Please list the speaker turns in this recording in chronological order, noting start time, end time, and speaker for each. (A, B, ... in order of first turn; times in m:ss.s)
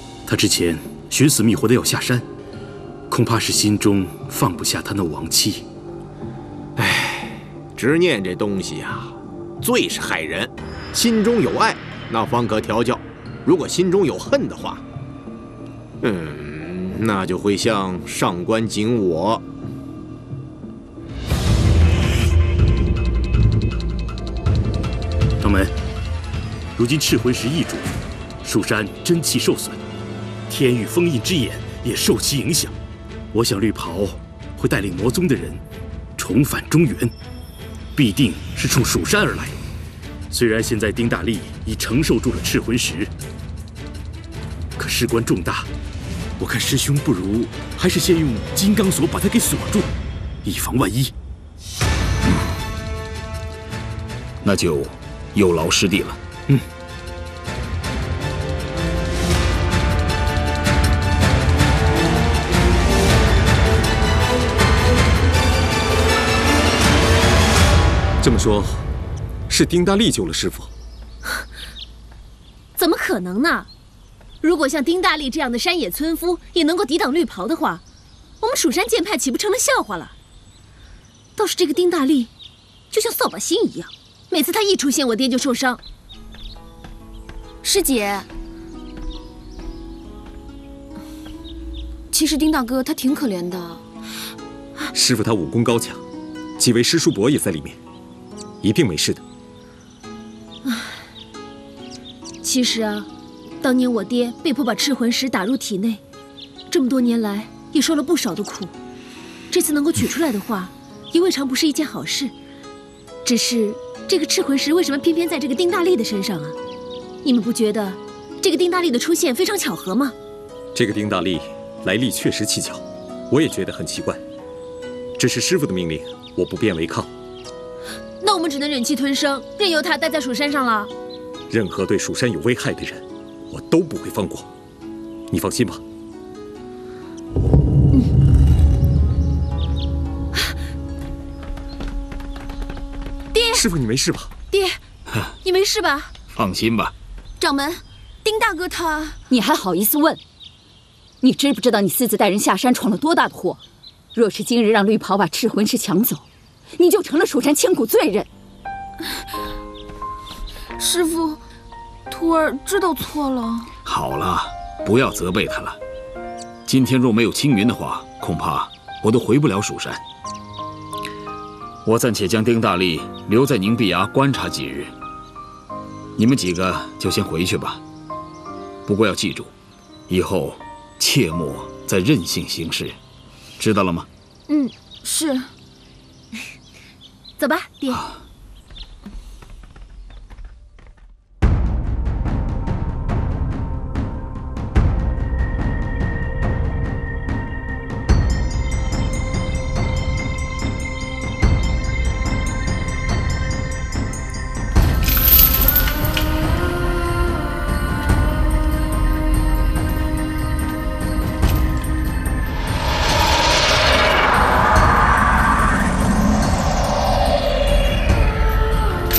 0:00.3-0:02.2 A
0:03.1-0:05.7 A
0:06.8-0:14.8 B
0:16.0-0:19.4 B
0:25.4-0:25.7 A
0:26.8-0:27.9 A
0:28.4-0:29.8 A
0:30.5-0:32.8 A
0:33.3-0:35.6 A
0:36.2-0:37.1 A
0:38.0-0:39.6 A
0:40.3-0:43.1 A
0:44.8-0:45.7 A
0:46.4-0:49.9 A
0:50.4-0:51.1 A
0:54.4-0:56.2 C
1:08.2-1:08.8 D
1:09.5-1:10.7 D
1:12.8-1:13.7 E
1:14.4-1:17.8 E
1:18.4-1:20.1 E
1:21.4-1:22.3 E
1:22.9-1:25.8 E
1:27.6-1:28.3 E
1:32.1-1:33.8 E
1:34.9-1:36.0 D
1:36.6-1:37.8 D
1:38.6-1:39.2 D
1:40.6-1:41.0 E
1:42.4-1:43.1 E
1:43.6-1:46.0 E
1:46.7-1:48.7 E
1:49.5-1:52.3 E
1:53.2-1:56.6 E
1:57.2-2:00.2 E
2:00.7-2:04.2 D
2:05.2-2:07.1 D
2:08.2-2:10.9 E
2:11.5-2:14.5 D
2:15.3-2:15.8 D
2:23.3-2:23.7 E
2:23.5-2:24.3 D
2:24.5-2:24.8 E
2:25.4-2:26.1 E
2:26.4-2:26.9 C
2:27.4-2:29.2 E
2:29.3-2:30.2 F
2:31.2-2:33.6 F
2:34.2-2:36.2 F
2:36.8-2:38.3 F
2:40.8-2:41.4 E
2:42.1-2:43.7 E
2:43.9-2:45.8 C
2:46.7-2:50.0 C
2:51.8-2:54.9 C
2:56.2-2:57.8 C
2:58.9-2:59.5 C
3:00.1-3:03.0 C
3:03.6-3:04.1 C
3:04.5-3:05.5 E
3:07.4-3:08.0 E